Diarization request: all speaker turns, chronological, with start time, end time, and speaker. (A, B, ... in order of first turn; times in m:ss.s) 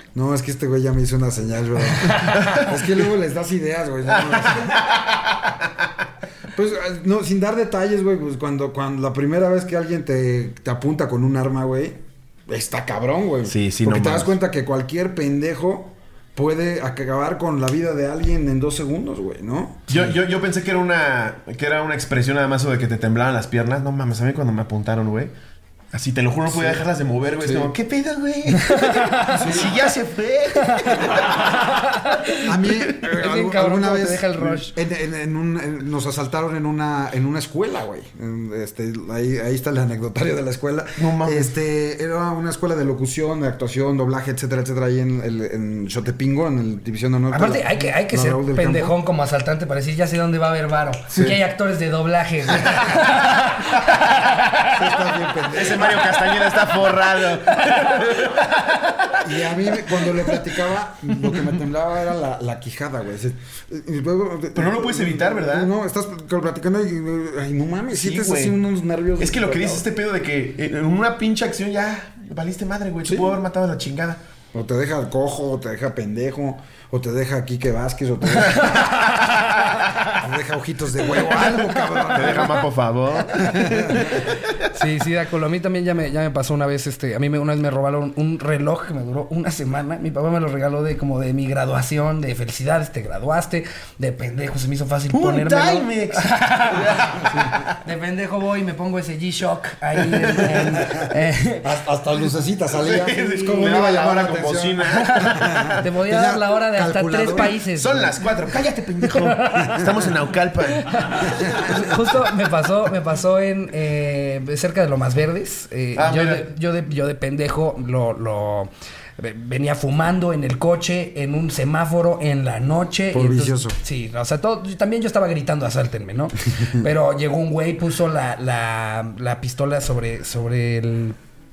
0:00.2-0:04.9 A
0:02.0-0:02.5 B
0:02.1-0:03.0 C
0:04.1-0:05.7 C
0:06.5-0:20.1 A
0:13.5-0:14.3 C
0:19.9-0:25.3 C
0:25.9-0:31.7 C
0:26.5-0:26.8 A
0:27.4-0:27.7 A
0:28.6-0:29.5 B
0:29.3-0:29.8 A
0:30.6-0:34.7 B
0:32.4-0:49.0 A
0:41.0-0:41.5 C
0:47.3-0:54.7 B
0:54.7-0:56.1 A
0:55.5-0:59.5 C
0:57.5-0:58.2 B
0:59.2-1:09.9 A
1:04.6-1:05.7 C
1:07.9-1:08.6 C
1:09.2-1:14.2 C
1:13.0-1:13.4 A
1:14.5-1:18.9 A
1:18.4-1:20.1 C
1:18.5-1:19.5 B
1:20.2-1:22.6 A
1:22.1-1:24.7 C
1:23.3-1:24.3 A
1:24.7-1:41.7 B
1:35.1-1:37.8 C
1:40.2-1:40.8 C
1:40.7-1:41.1 A
1:41.6-1:47.6 A
1:42.7-1:45.8 C
1:44.9-1:48.1 B
1:47.4-1:51.4 C
1:49.0-1:49.9 B
1:50.7-2:11.2 B
1:51.3-1:51.7 A
1:56.0-1:56.5 C
2:03.1-2:03.8 A